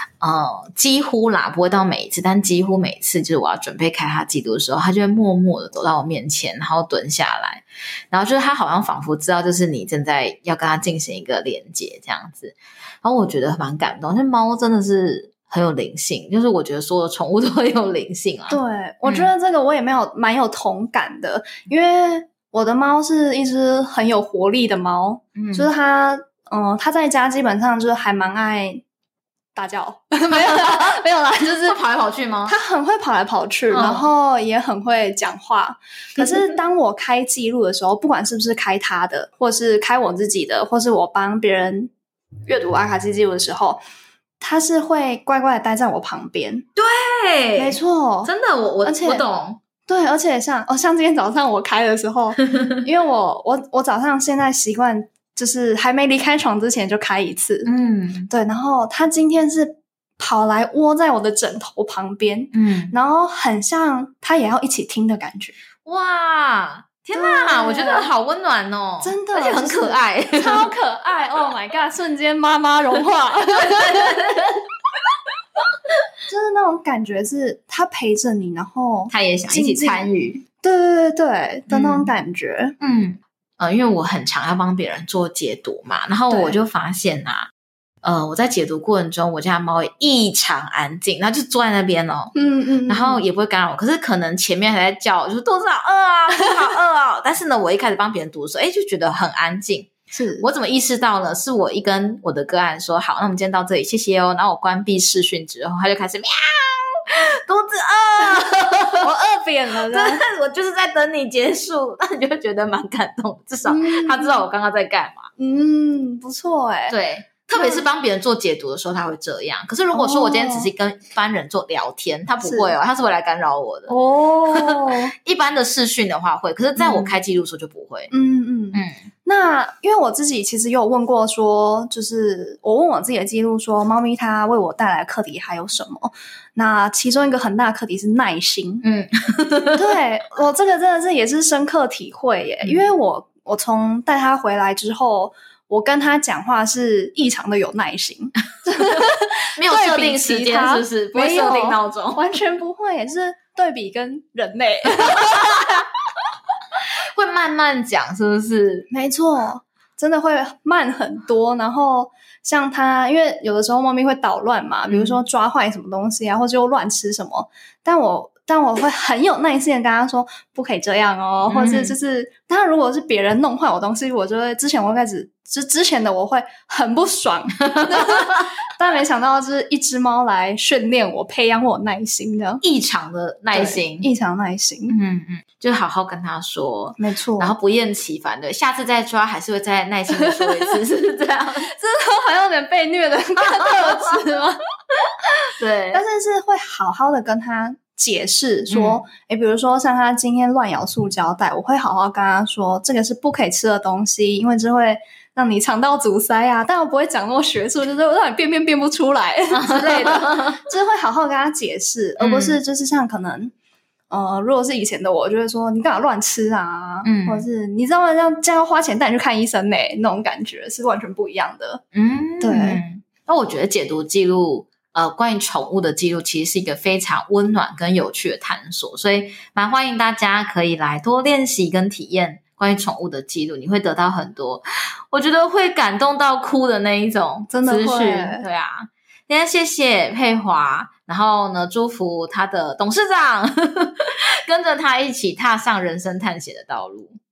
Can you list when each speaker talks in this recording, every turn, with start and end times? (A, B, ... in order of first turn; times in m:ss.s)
0:00.2-0:19.3 A
0:18.5-0:28.8 B
0:25.4-0:25.7 A
0:29.6-0:31.8 B
0:30.5-0:31.0 A
0:31.6-0:32.6 A
0:32.4-0:41.9 B
0:33.7-0:34.0 A
0:42.5-0:43.8 B
0:44.4-0:46.6 B
0:46.8-0:49.6 A
0:47.6-0:48.3 B
0:48.8-0:49.2 B
0:49.9-0:57.7 B
0:57.6-0:58.3 A
0:58.3-1:05.6 B
1:02.5-1:02.9 A
1:05.8-1:10.6 A
1:07.1-1:08.1 B
1:09.0-1:14.1 B
1:13.7-1:14.6 A
1:16.3-1:20.1 B
1:19.1-1:20.4 A
1:20.6-1:22.7 B
1:21.7-1:22.1 A
1:22.8-1:27.5 A
1:26.3-1:26.6 B
1:28.0-1:32.3 A
1:32.3-1:33.2 B
1:32.9-1:49.1 A
1:40.1-1:40.5 B
1:49.0-1:50.2 B
1:49.9-1:55.3 A
1:53.6-1:54.4 B
1:55.4-1:56.9 B
1:56.9-2:03.9 A
1:57.5-1:57.8 B
1:59.9-2:00.7 B
2:02.4-2:02.7 B
2:03.9-2:05.1 B
2:04.5-2:08.1 A
2:06.8-2:07.1 B
2:08.1-2:18.8 B
2:18.8-2:19.9 A
2:19.8-2:35.6 B
2:29.5-2:32.2 A
2:35.1-2:35.6 A
2:37.1-2:38.9 A
2:38.9-3:02.6 B
2:44.9-2:45.2 A
2:51.5-2:52.0 A
2:57.7-2:58.5 A
3:02.6-3:04.1 A
3:03.5-3:05.0 B
3:04.9-3:11.7 A
3:07.0-3:07.5 B
3:10.2-3:10.7 B
3:11.7-3:14.6 B
3:13.8-3:14.1 A
3:15.6-3:16.0 A
3:15.9-3:33.5 B
3:18.7-3:19.0 A
3:29.5-3:30.6 A
3:32.2-3:32.6 A
3:34.1-3:41.8 B
3:37.0-3:37.4 A
3:41.9-4:07.2 A
3:42.4-3:42.8 B
3:57.5-3:58.4 B